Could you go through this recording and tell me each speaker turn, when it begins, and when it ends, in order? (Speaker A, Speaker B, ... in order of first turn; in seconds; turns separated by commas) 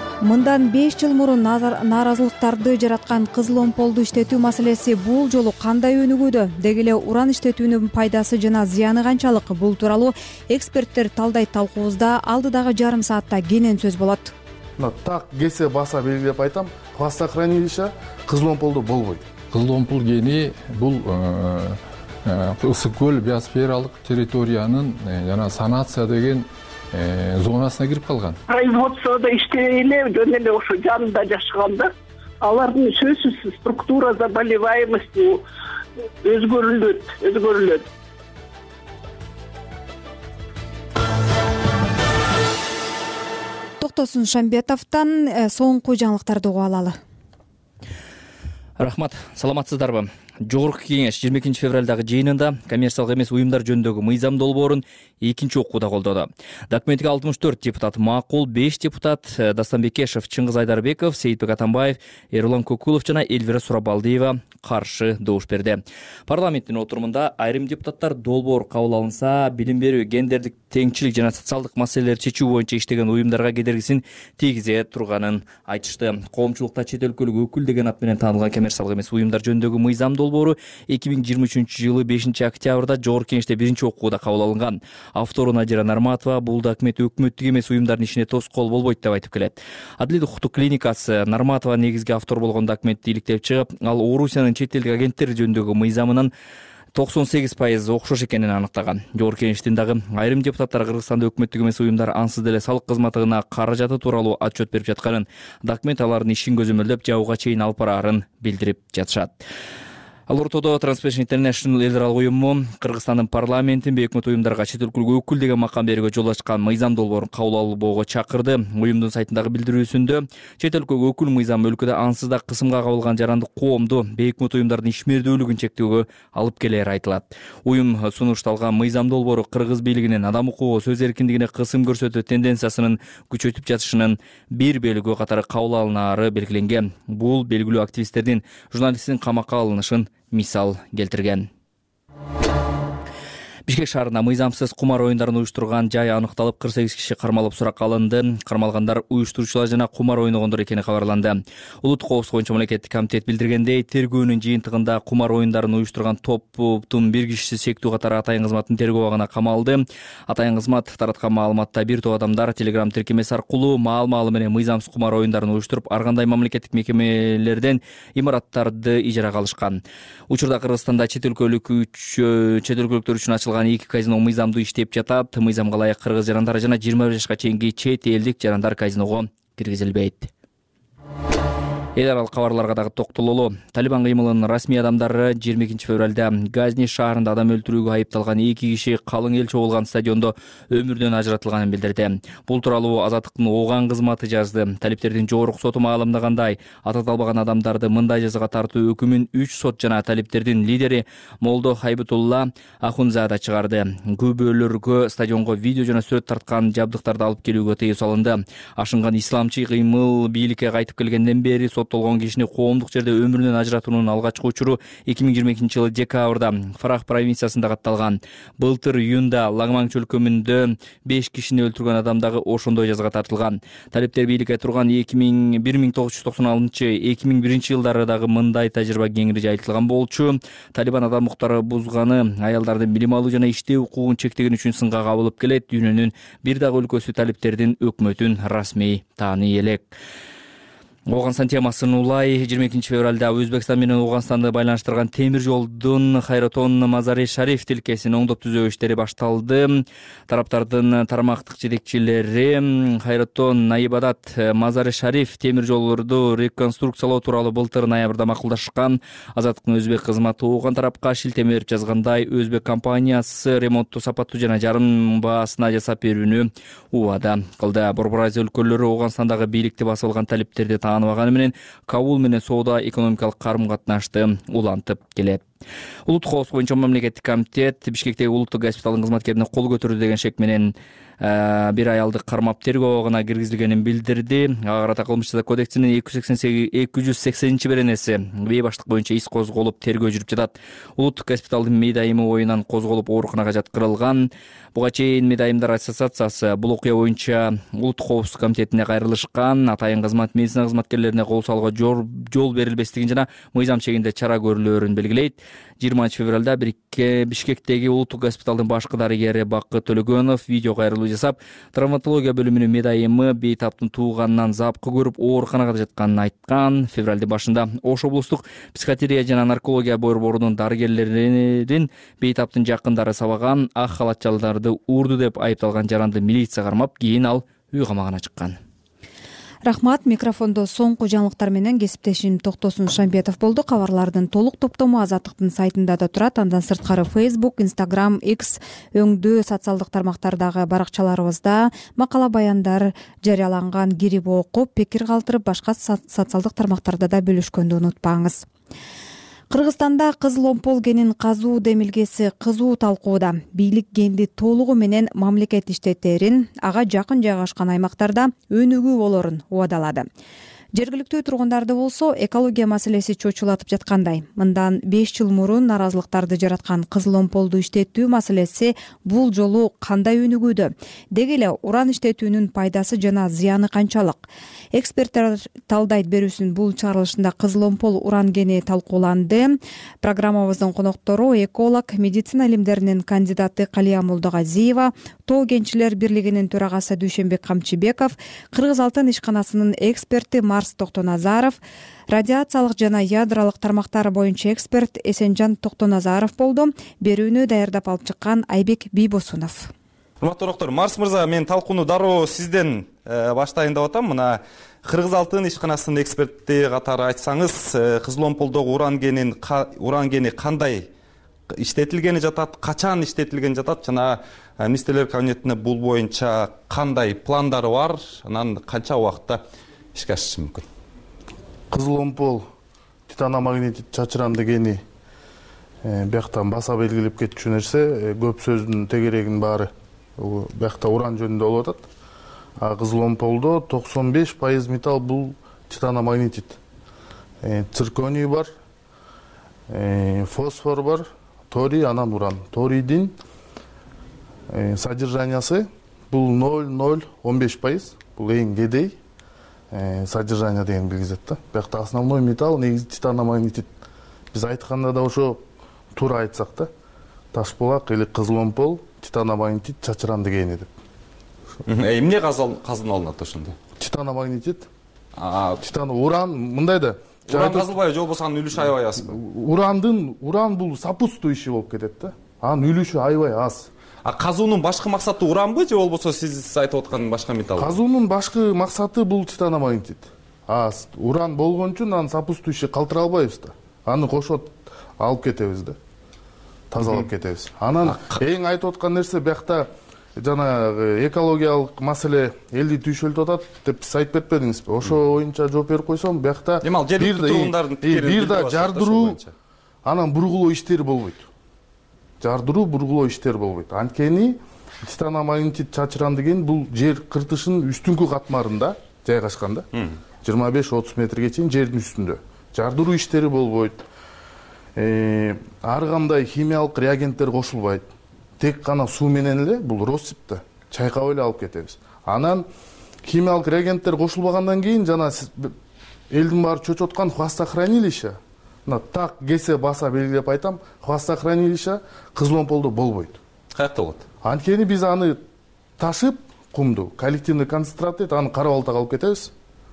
Speaker A: 0.2-14.3, Speaker B: 14.8-19.3, Speaker C: 19.5-28.4, Speaker D: 28.5-35.4, Speaker D: 36.2-37.9, Speaker A: 43.8-47.0, Speaker E: 48.8-96.3, Speaker E: 96.9-109.3, Speaker E: 110.3-141.5, Speaker E: 143.7-180.3, Speaker E: 181.9-239.9, Speaker E: 241.1-275.4, Speaker E: 276.1-328.6, Speaker A: 329.7-348.4, Speaker A: 349.5-360.1, Speaker A: 360.8-391.6, Speaker A: 392.1-399.7, Speaker F: 400.2-410.9, Speaker F: 411.5-419.4, Speaker F: 419.9-420.7, Speaker B: 421.7-422.4, Speaker B: 423.1-424.8, Speaker B: 425.8-431.9, Speaker B: 432.6-436.6, Speaker B: 437.4-438.5, Speaker B: 439.7-443.1, Speaker B: 444.5-449.0, Speaker B: 449.7-453.7, Speaker B: 454.3-455.4, Speaker B: 455.9-456.7, Speaker B: 457.3-460.7, Speaker F: 461.7-463.6, Speaker B: 463.8-464.7, Speaker F: 465.2-465.6, Speaker B: 465.6-467.7, Speaker F: 467.3-469.2, Speaker B: 469.0-473.7, Speaker F: 474.0-477.8, Speaker B: 477.6-485.8, Speaker B: 486.7-499.2, Speaker F: 487.9-488.2, Speaker F: 496.6-499.3, Speaker B: 499.8-501.3, Speaker B: 502.2-509.7, Speaker B: 510.2-513.8, Speaker B: 514.8-517.9, Speaker B: 518.4-522.5, Speaker B: 523.0-525.5, Speaker B: 526.1-533.2, Speaker F: 533.5-534.0, Speaker B: 534.2-535.2, Speaker B: 535.8-539.3